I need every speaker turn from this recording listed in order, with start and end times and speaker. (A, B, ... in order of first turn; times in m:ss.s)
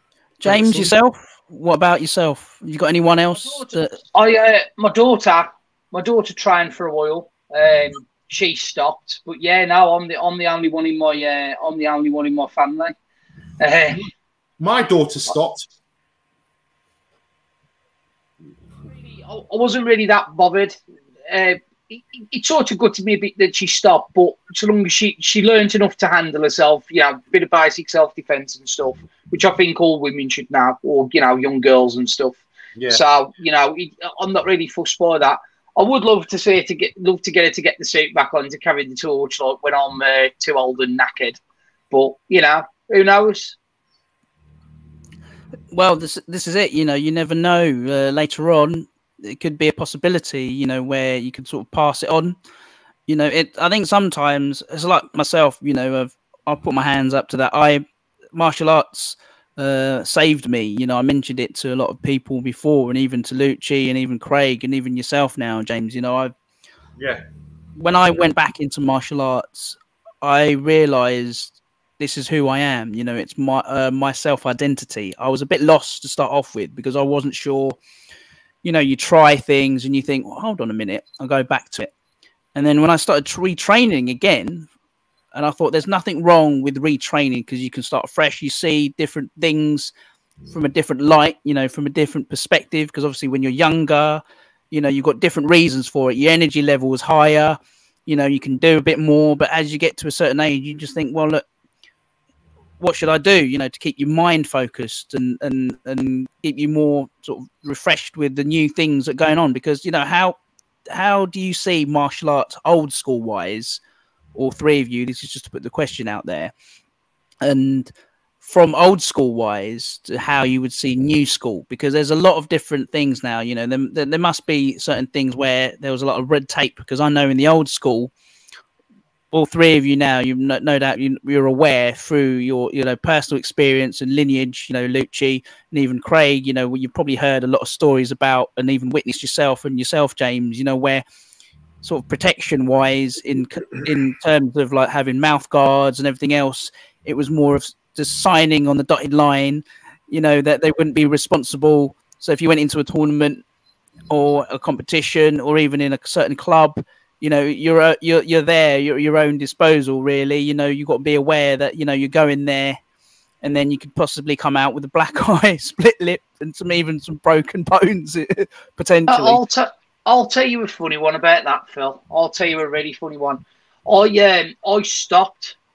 0:00.4-0:04.0 A
0:00.4-0:01.0 B
0:03.4-0:13.0 C
0:13.6-0:14.0 C
0:14.6-0:15.7 B
0:19.0-0:41.4 C
0:32.8-0:33.0 B
0:41.9-0:43.6 C
0:45.7-0:52.4 A
0:53.1-1:06.3 A
1:07.8-1:17.8 A
1:18.6-1:21.9 A
1:22.5-1:24.7 A
1:25.3-1:29.9 A
1:30.5-1:41.4 A
1:42.8-1:53.8 A
1:54.3-1:56.5 A
1:57.4-1:57.9 A
1:58.4-2:08.1 A
2:09.3-2:21.0 A
2:21.8-2:33.4 A
2:34.1-2:42.8 A
2:43.4-2:49.4 A
2:49.1-2:55.6 C